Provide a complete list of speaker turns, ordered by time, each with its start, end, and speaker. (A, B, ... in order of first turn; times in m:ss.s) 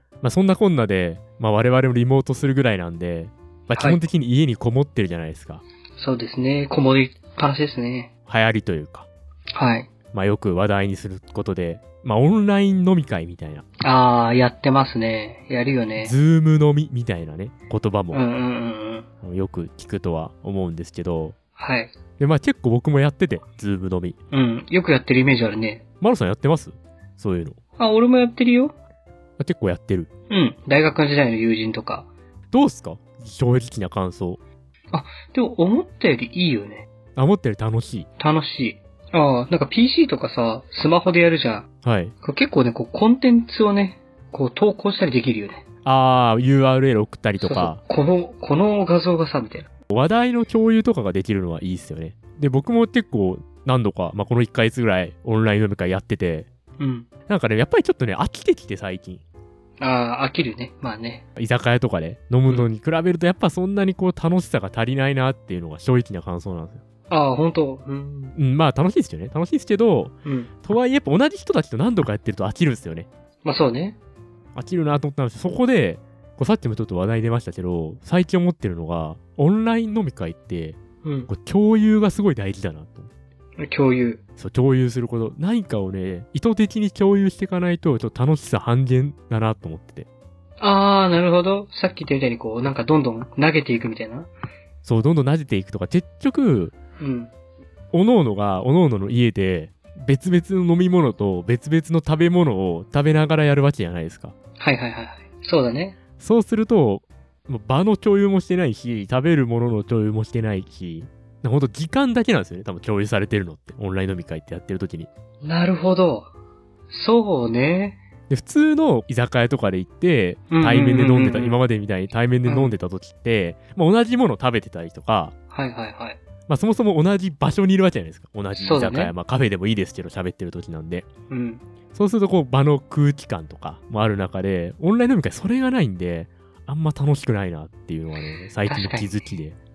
0:00.2-0:05.6 A
0:06.0-0:08.1 B
0:08.3-0:09.1 A
0:09.5-0:09.9 B
0:10.1-0:13.6 A
0:13.8-0:16.1 B
0:16.0-0:18.2 A
0:18.1-0:19.0 B
0:19.2-0:21.4 A
0:21.6-0:21.9 B
0:22.2-0:24.2 A
0:24.3-0:25.8 B
0:26.0-0:27.6 A
0:27.8-0:28.7 B
0:29.4-0:30.1 A
0:30.3-0:32.1 B
0:32.5-0:34.4 A
0:34.9-0:36.8 B
0:37.2-0:38.1 A
0:38.2-0:41.7 B
0:41.8-0:42.1 A
0:42.2-0:45.6 B
0:45.8-0:47.8 A
0:47.4-0:49.7 B
0:49.9-0:56.5 A
0:56.8-0:57.1 B
0:57.3-0:59.2 A
0:59.8-1:01.2 B
1:01.4-1:06.8 A
1:07.1-1:08.4 B
1:08.3-1:13.1 A
1:10.2-1:10.5 B
1:13.4-1:14.0 B
1:14.5-1:23.1 A
1:21.0-1:21.3 B
1:23.6-1:24.2 B
1:24.4-1:30.1 A
1:30.6-1:34.3 B
1:34.8-1:36.7 A
1:37.0-1:37.3 B
1:37.9-1:44.3 A
1:44.6-1:46.0 B
1:46.2-1:55.1 A
1:55.4-1:56.3 B
1:56.9-1:58.0 B
1:58.3-2:05.3 A
2:00.5-2:01.6 B
2:02.4-2:02.7 B
2:05.5-2:06.2 B
2:06.5-2:11.1 A
2:08.6-2:09.1 B
2:11.3-2:11.6 B
2:11.9-2:19.6 A
2:18.6-2:19.3 B